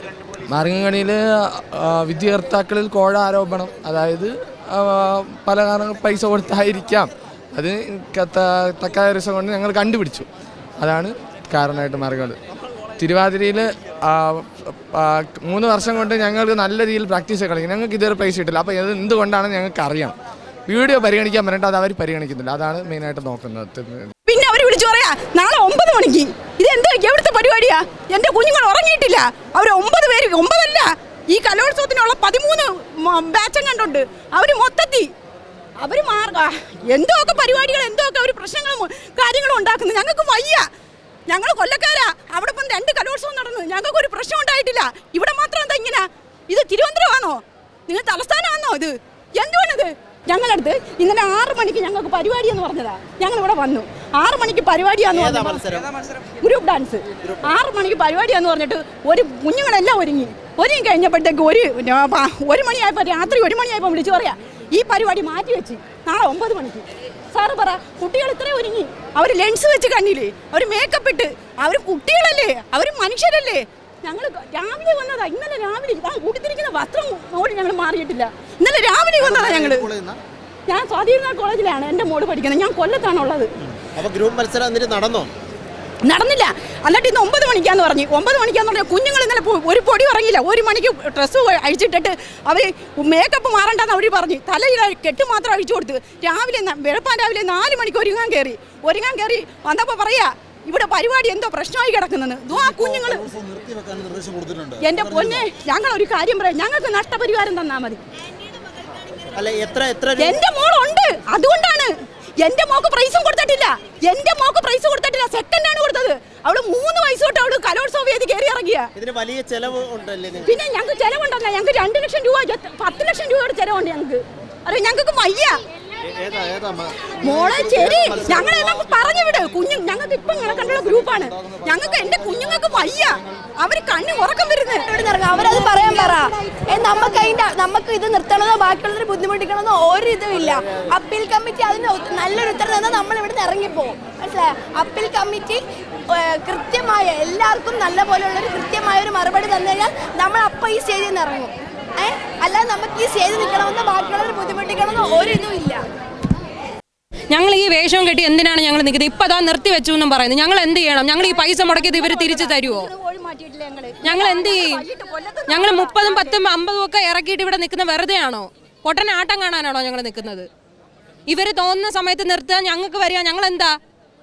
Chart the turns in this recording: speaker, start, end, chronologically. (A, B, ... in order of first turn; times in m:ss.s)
0:00.5-0:10.3 A
0:10.8-0:12.4 A
0:13.0-0:20.2 A
0:20.7-0:24.1 A
0:24.3-0:35.1 B
0:35.8-0:40.7 B
0:41.3-0:55.7 B
0:55.1-0:55.9 C
0:56.4-1:19.9 B
1:19.2-1:20.2 C
1:20.7-1:23.5 B
1:24.0-1:25.3 C
1:26.0-1:43.3 B
1:42.7-1:45.5 C
1:44.8-1:48.0 B
1:49.3-1:50.4 C
1:50.2-1:58.9 B
1:59.0-2:00.5 C
2:00.4-2:05.6 B
2:06.2-2:08.5 C
2:07.2-2:16.3 B
2:14.9-2:35.8 D
2:37.3-2:42.9 E
2:41.2-2:46.4 B
2:44.0-2:44.8 E
2:45.5-2:50.5 E
2:51.3-2:53.8 E